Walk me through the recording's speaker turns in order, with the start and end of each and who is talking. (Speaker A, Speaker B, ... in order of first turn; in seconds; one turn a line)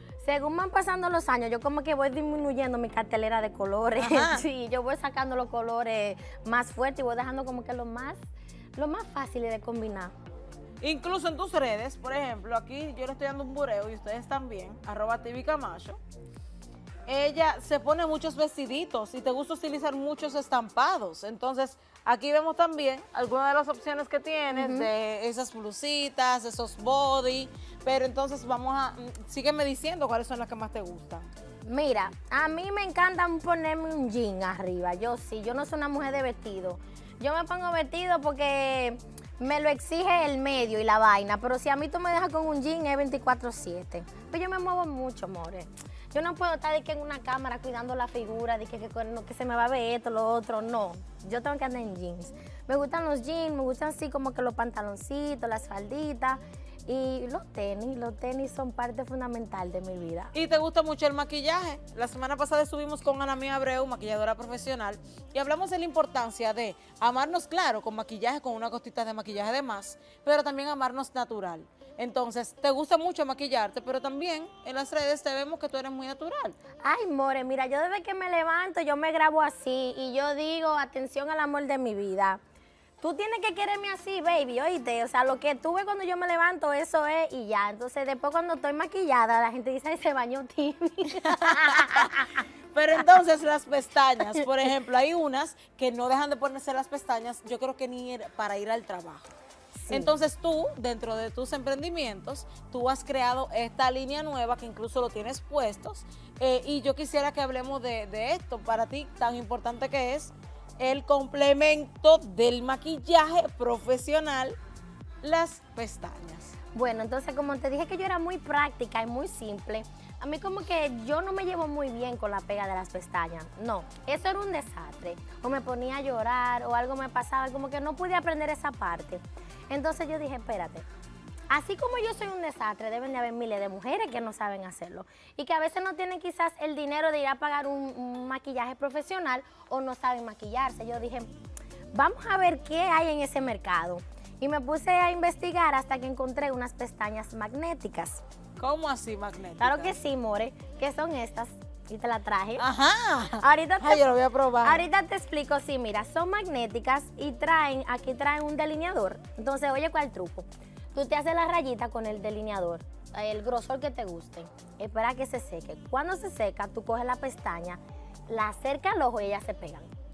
Speaker A: 0.2-8.2
Speaker B: 4.0-4.4
Speaker A: 8.8-10.1
Speaker B: 10.8-16.0
Speaker B: 17.1-31.3
Speaker A: 24.5-24.9
Speaker A: 31.6-60.3
Speaker B: 60.3-76.6
Speaker A: 76.8-82.4
Speaker A: 83.0-92.3
Speaker B: 91.2-99.3
Speaker A: 99.8-100.1
Speaker B: 99.9-114.6
Speaker B: 115.2-116.5
Speaker A: 116.7-130.8
Speaker A: 131.5-141.3
Speaker A: 141.9-148.2
Speaker B: 148.6-149.9
Speaker A: 149.6-152.6
Speaker B: 152.6-154.8
Speaker A: 153.4-154.0
Speaker A: 154.6-169.9